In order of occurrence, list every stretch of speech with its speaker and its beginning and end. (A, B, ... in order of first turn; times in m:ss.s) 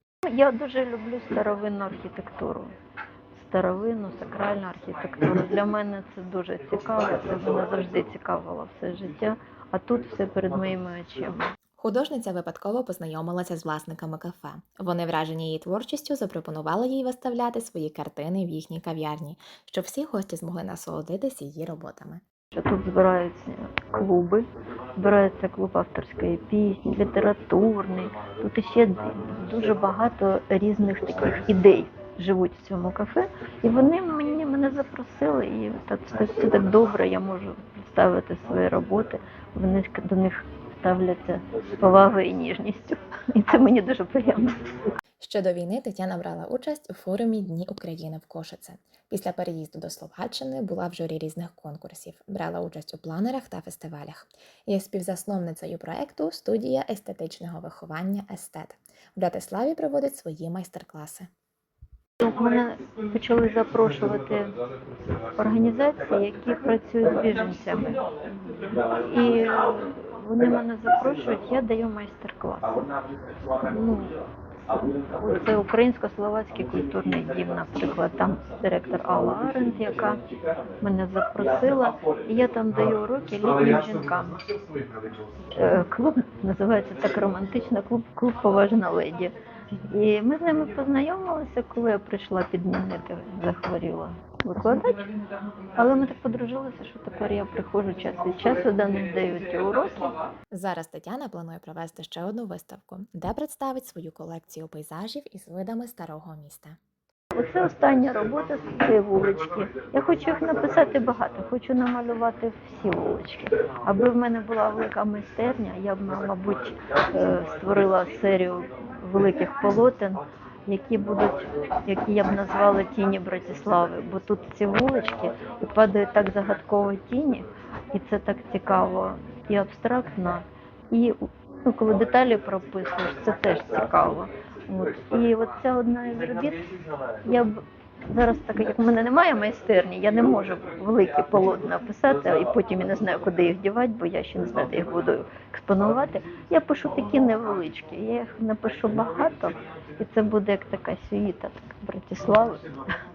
0:00.3-0:02.7 A
0:03.3-0:11.5 A
0:11.8-0:22.2 B
0:22.5-0:44.6 A
0:45.2-1:01.3 B
1:02.2-1:04.6 A
1:05.4-1:12.9 A
1:13.6-1:14.2 A
1:14.7-1:20.2 A
1:20.8-1:24.4 A
1:25.5-1:29.3 A
1:29.8-1:35.0 A
1:35.8-1:40.2 A
1:40.5-1:46.8 B
1:47.3-2:16.7 A
2:17.2-2:32.7 A